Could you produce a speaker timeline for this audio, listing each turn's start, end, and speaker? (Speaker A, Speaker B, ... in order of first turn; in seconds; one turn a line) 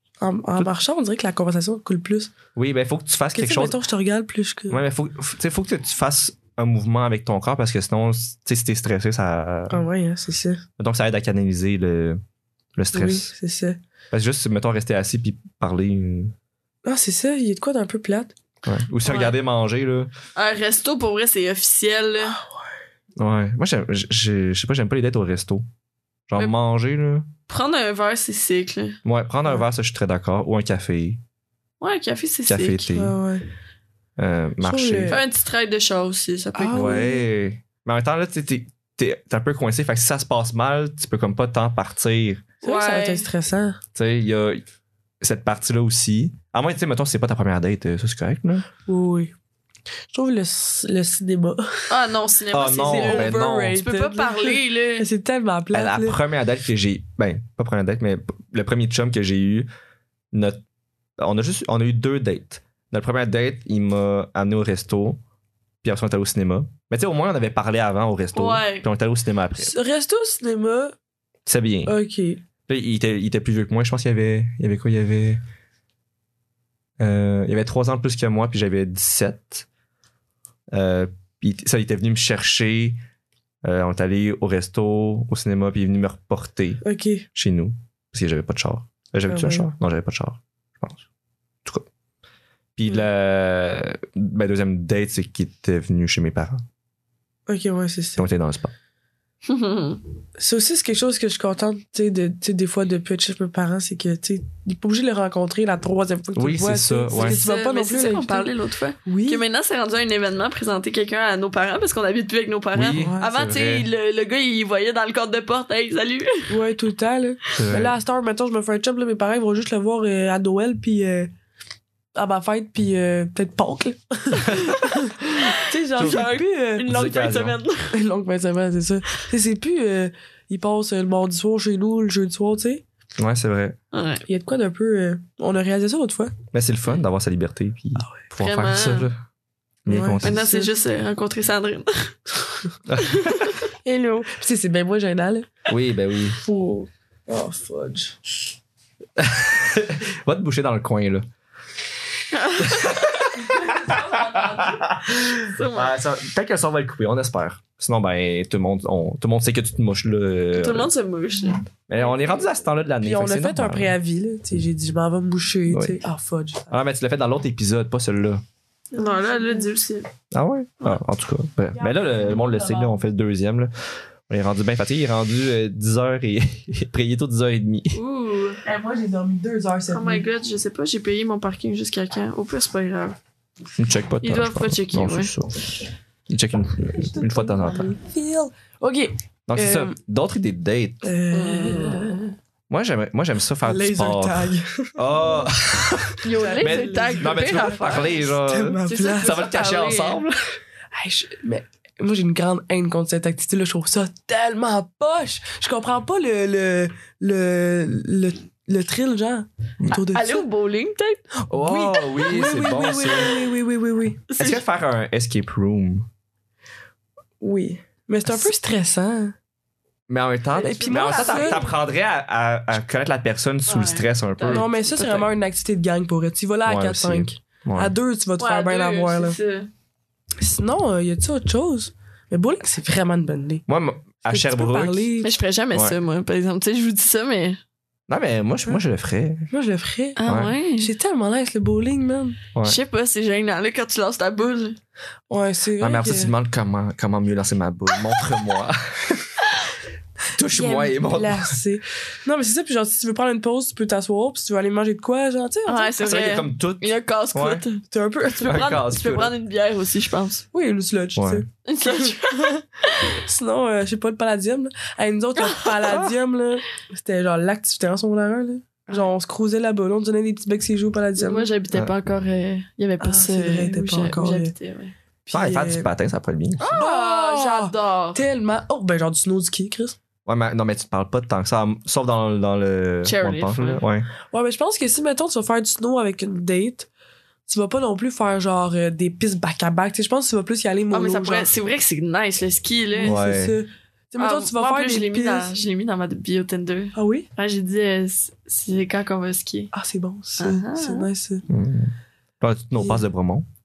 Speaker A: 0.2-2.3
Speaker B: 2.5-3.8
Speaker A: 3.4-4.8
Speaker B: 4.7-9.8
Speaker A: 9.7-10.6
Speaker B: 10.8-12.2
Speaker B: 12.8-13.3
Speaker A: 12.9-13.8
Speaker B: 14.1-16.3
Speaker A: 16.9-18.3
Speaker B: 18.6-20.1
Speaker C: 19.1-19.4
Speaker C: 20.4-22.4
Speaker B: 23.2-25.7
Speaker B: 26.3-27.3
Speaker C: 27.5-29.0
Speaker B: 29.1-31.2
Speaker C: 31.8-32.9
Speaker B: 32.5-33.1
Speaker A: 32.9-33.5
Speaker B: 34.2-35.2
Speaker A: 34.6-35.2
Speaker C: 35.1-37.1
Speaker A: 36.5-37.2
Speaker B: 36.7-42.5
Speaker C: 42.6-43.3
Speaker A: 42.6-43.8
Speaker B: 44.0-44.6
Speaker B: 45.2-48.7
Speaker A: 48.9-49.3
Speaker A: 50.1-52.0
Speaker C: 51.9-55.1
Speaker B: 52.5-53.8
Speaker A: 52.8-56.2
Speaker B: 55.7-59.7
Speaker B: 60.3-60.6
Speaker B: 61.2-65.2
Speaker B: 65.8-69.7
Speaker C: 68.3-68.9
Speaker A: 69.6-70.9
Speaker B: 71.5-71.9
Speaker A: 71.9-72.4
Speaker B: 72.7-75.4
Speaker B: 77.0-79.7
Speaker B: 80.7-83.0
Speaker B: 83.6-86.8
Speaker A: 86.8-87.3
Speaker B: 87.3-91.0
Speaker A: 89.3-89.7
Speaker B: 92.8-96.6
Speaker A: 97.5-98.2
Speaker B: 98.2-98.7
Speaker C: 99.5-100.0
Speaker A: 100.4-108.5
Speaker B: 106.4-107.4
Speaker C: 107.1-116.6
Speaker A: 109.1-109.4
Speaker B: 112.7-113.9
Speaker A: 112.9-113.3
Speaker A: 116.5-121.3
Speaker B: 117.5-117.9
Speaker A: 122.2-126.9
Speaker C: 124.5-128.0
Speaker B: 126.0-127.6
Speaker A: 127.9-132.8
Speaker B: 133.2-133.8
Speaker C: 133.9-134.3
Speaker A: 134.3-136.3
Speaker B: 136.5-139.2
Speaker C: 138.4-139.1
Speaker B: 139.9-140.4
Speaker A: 139.9-140.7
Speaker C: 140.2-142.2
Speaker B: 142.9-143.4
Speaker C: 143.0-143.6
Speaker A: 143.8-145.7
Speaker B: 145.7-146.4
Speaker A: 146.4-148.2
Speaker B: 149.2-151.3
Speaker C: 152.3-155.9
Speaker B: 152.6-160.9
Speaker C: 160.5-162.4
Speaker B: 161.9-164.0
Speaker A: 163.0-166.7
Speaker B: 165.7-166.0
Speaker B: 166.7-168.4
Speaker C: 168.9-170.1
Speaker A: 168.9-169.7
Speaker B: 170.3-173.7
Speaker A: 171.8-173.0
Speaker B: 174.3-178.0
Speaker C: 177.9-178.6
Speaker A: 178.6-180.2
Speaker C: 179.9-183.2
Speaker B: 183.8-185.6
Speaker C: 184.2-185.3
Speaker B: 186.3-187.9
Speaker A: 187.0-189.9
Speaker B: 189.5-191.1
Speaker A: 191.0-192.2
Speaker C: 191.3-192.2
Speaker B: 192.7-200.6
Speaker A: 193.7-195.5
Speaker C: 196.2-198.3
Speaker A: 196.3-199.5
Speaker C: 198.8-200.2
Speaker A: 200.9-210.5
Speaker C: 210.0-211.2
Speaker A: 211.4-214.2
Speaker B: 211.5-213.4
Speaker C: 214.3-214.6
Speaker B: 214.4-216.1
Speaker A: 217.4-219.3
Speaker B: 220.1-224.7
Speaker A: 220.6-221.6
Speaker C: 220.7-221.7
Speaker C: 223.7-225.3
Speaker A: 224.5-229.4
Speaker B: 226.7-227.9
Speaker C: 228.4-229.7
Speaker A: 230.4-233.7
Speaker B: 233.7-235.1
Speaker A: 234.2-235.3
Speaker C: 235.2-237.6
Speaker B: 238.1-239.5
Speaker A: 239.5-240.2
Speaker C: 240.2-240.9
Speaker B: 240.3-240.5
Speaker A: 240.8-242.4
Speaker C: 242.6-244.8
Speaker A: 245.3-246.3
Speaker B: 245.8-249.3
Speaker B: 250.3-251.6
Speaker A: 250.5-255.9
Speaker C: 255.7-257.8
Speaker B: 256.0-257.6
Speaker A: 257.9-258.8
Speaker C: 258.4-260.4
Speaker B: 258.4-259.3
Speaker A: 260.5-271.5
Speaker B: 261.2-261.4
Speaker C: 261.7-263.2
Speaker C: 265.4-265.8
Speaker C: 271.2-274.9
Speaker A: 273.0-274.5
Speaker A: 275.3-275.9
Speaker B: 275.3-276.8
Speaker C: 276.6-278.2
Speaker A: 276.7-280.0
Speaker B: 280.3-284.1
Speaker C: 283.0-283.8
Speaker A: 284.3-286.9
Speaker A: 287.5-291.5
Speaker C: 290.9-293.2
Speaker A: 293.0-295.6
Speaker B: 293.0-293.6
Speaker C: 294.2-299.7
Speaker A: 296.9-297.3
Speaker A: 299.7-301.4
Speaker C: 300.4-301.1
Speaker B: 301.5-303.4